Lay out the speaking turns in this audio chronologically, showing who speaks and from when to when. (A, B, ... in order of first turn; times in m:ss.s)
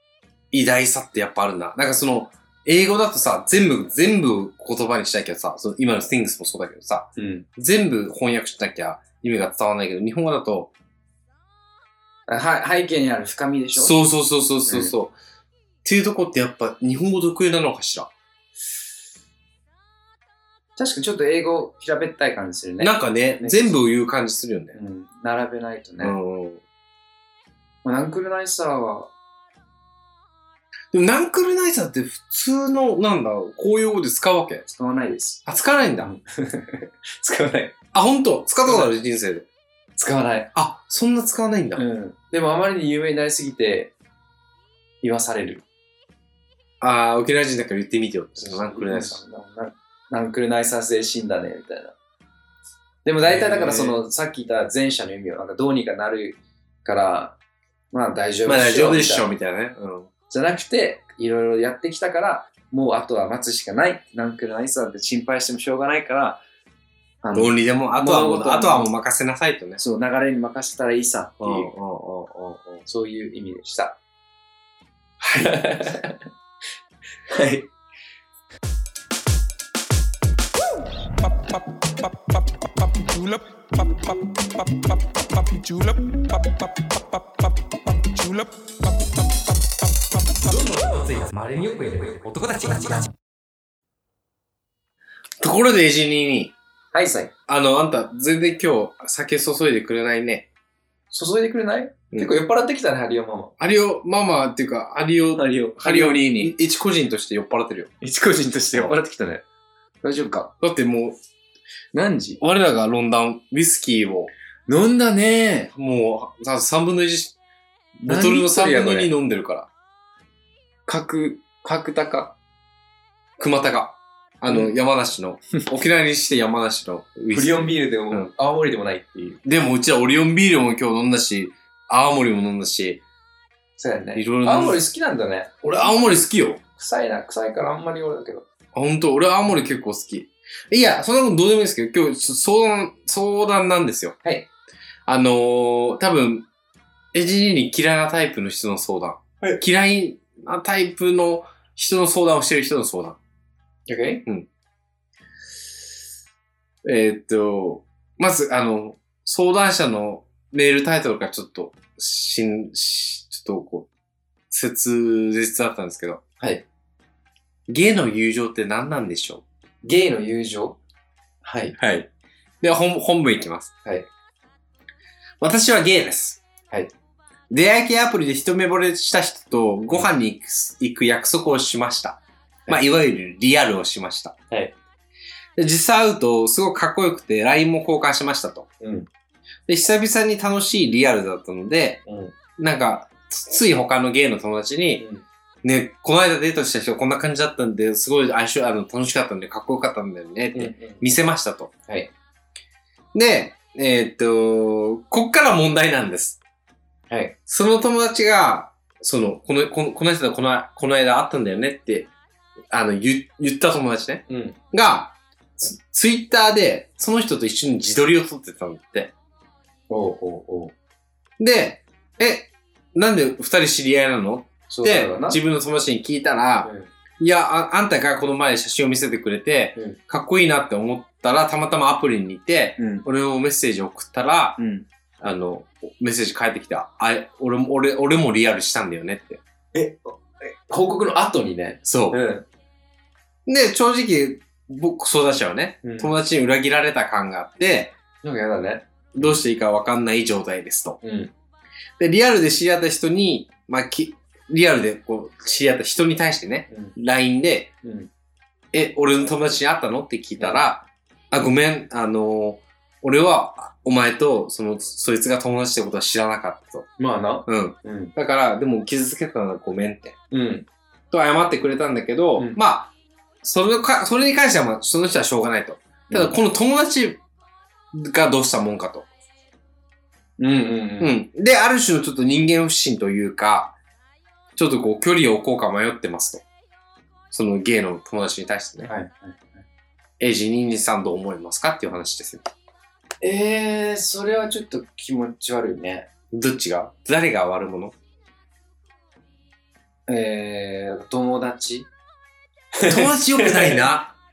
0:00.5-0:10.7 A
0:07.2-0:07.5 B
0:12.3-0:14.0 B
0:13.8-0:15.2 A
0:14.6-0:14.9 B
0:15.8-0:18.1 A
0:20.8-0:23.8 B
0:22.8-0:24.8 A
0:24.7-0:26.2 B
0:26.0-0:26.6 A
0:27.8-0:29.1 B
0:30.9-0:34.6 A
0:34.6-0:35.4 B
0:35.4-0:36.1 A
0:36.0-0:37.8 B
0:37.9-0:39.4 A
0:38.6-0:38.9 B
0:40.0-0:40.5 B
0:40.5-0:41.8 A
0:41.8-0:43.9 B
0:45.0-0:45.6 B
0:46.8-0:49.2 A
0:48.4-0:51.9 B
0:53.0-0:57.4 B
0:53.2-0:54.0 A
0:57.9-0:59.3 B
0:58.4-1:00.1 A
1:00.3-1:06.4 B
1:07.2-1:08.9 B
1:07.3-1:09.8 A
1:09.8-1:11.7 B
1:11.4-1:12.8 A
1:12.8-1:14.0 B
1:15.2-1:16.2 B
1:17.3-1:17.7 B
1:21.2-1:33.1 C
1:35.4-1:36.5 A
1:36.9-1:37.3 B
1:37.5-1:40.5 A
1:41.1-1:43.5 B
1:43.6-1:47.9 A
1:45.4-1:46.5 B
1:48.0-1:49.4 B
1:50.0-1:50.5 B
1:50.6-1:51.2 A
1:51.9-1:52.4 B
1:52.4-1:54.3 A
1:54.7-1:55.7 B
1:55.7-1:57.4 A
1:58.0-1:59.1 B
1:58.0-1:59.7 A
2:00.9-2:02.4 B
2:03.4-2:08.3 A
2:04.5-2:04.7 B
2:07.3-2:09.4 B
2:09.4-2:13.0 A
2:13.8-2:16.2 B
2:14.1-2:14.8 A
2:15.6-2:16.6 A
2:16.7-2:18.4 B
2:18.7-2:24.2 A
2:25.0-2:26.5 A
2:27.1-2:33.2 A
2:33.9-2:34.2 B
2:36.8-2:43.9 A
2:44.5-2:46.2 A
2:46.4-2:46.6 B
2:47.7-2:49.4 A
2:49.8-2:50.8 B
2:51.4-2:51.7 B
2:51.8-2:52.1 A
2:52.6-2:53.7 A
2:55.4-2:56.4 A
2:57.5-3:04.3 A
3:04.5-3:04.8 B
3:05.6-3:08.7 A
3:08.8-3:09.1 B
3:09.7-3:12.0 A
3:12.0-3:12.3 B
3:12.6-3:15.0 A
3:15.0-3:15.2 B
3:15.6-3:21.7 A
3:20.5-3:21.0 B
3:23.1-3:26.4 A
3:27.1-3:27.4 B
3:27.5-3:32.1 A
3:32.7-3:39.1 A
3:34.3-3:34.6 B
3:39.9-3:40.7 B
3:41.4-3:54.6 A
3:44.7-3:45.4 B
3:46.6-3:46.9 B
3:52.8-3:53.0 B
3:54.6-3:54.8 B
3:55.2-3:59.4 A
3:59.7-4:02.4 B
4:01.8-4:02.2 A
4:03.4-4:08.0 A
4:05.8-4:06.1 B
4:08.2-4:09.4 B
4:09.1-4:11.0 A
4:11.0-4:11.3 B
4:12.0-4:17.7 A
4:16.7-4:17.0 B
4:17.8-4:18.1 B
4:18.7-4:26.9 A
4:20.4-4:20.6 B
4:27.0-4:28.1 B
4:27.5-4:30.2 A
4:30.3-4:30.6 B
4:31.1-4:32.9 A
4:33.4-4:37.2 A
4:36.1-4:36.4 B
4:37.9-4:39.1 A
4:40.4-4:41.2 B
4:41.0-4:43.8 A
4:44.6-4:46.4 A
4:47.3-4:48.9 A
4:48.8-4:49.6 B
4:50.2-4:52.5 A
4:53.2-4:56.1 B
4:56.3-4:57.9 A
5:00.1-5:01.9 B
5:02.8-5:03.8 B
5:02.8-5:04.1 A